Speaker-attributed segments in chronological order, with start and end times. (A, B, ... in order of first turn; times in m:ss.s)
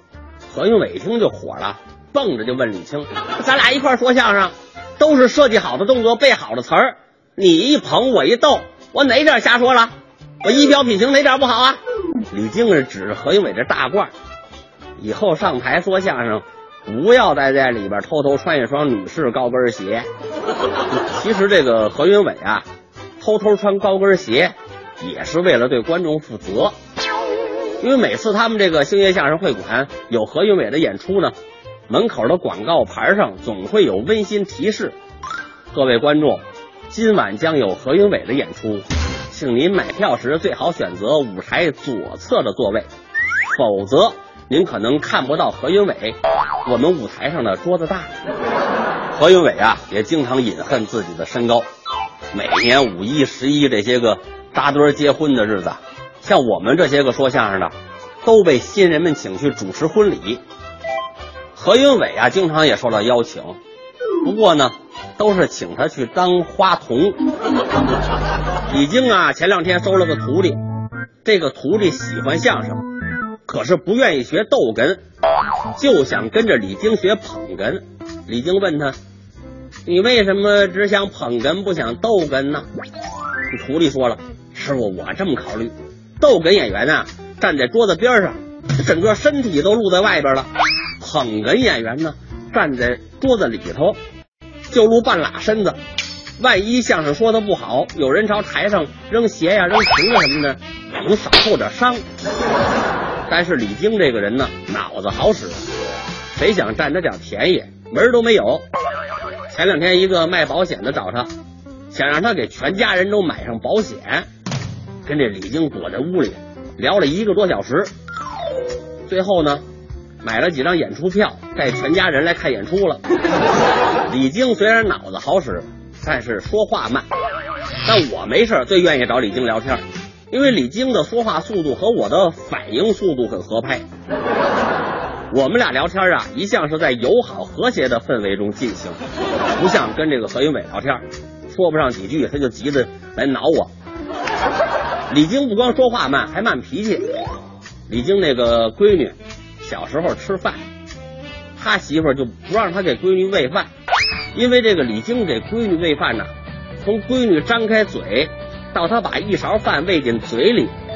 0:00.5-0:11.8 A
0:12.3-0:14.1 A
0:15.0-0:20.1 A
0:20.9-0:22.7 A
0:23.2-0:26.8 A
0:27.8-0:31.4 A
0:31.9-0:35.0 A
0:35.7-0:42.9 A
0:43.5-0:48.1 A
0:49.1-0:51.7 A
0:52.3-0:57.7 A
0:58.2-1:00.4 A
1:01.5-1:03.6 A
1:04.2-1:07.2 A
1:08.7-1:10.6 A
1:11.2-1:12.8 A
1:13.5-1:15.0 A
1:15.8-1:19.0 A
1:19.9-1:22.6 A
1:23.5-1:30.5 A
1:31.0-1:34.0 A
1:34.7-1:35.8 A
1:36.4-1:42.0 A
1:43.3-1:45.6 A
1:46.3-1:48.6 A
1:49.5-1:51.3 A
1:51.9-1:54.3 A
1:55.0-1:57.9 A
1:59.1-1:59.6 A
2:00.2-2:03.0 A
2:04.1-2:07.0 A
2:07.8-2:13.8 A
2:15.3-2:19.0 A
2:19.6-2:23.7 A
2:25.1-2:27.0 A
2:27.9-2:30.6 A
2:31.6-2:33.7 A
2:34.4-2:36.3 A
2:36.8-2:40.7 A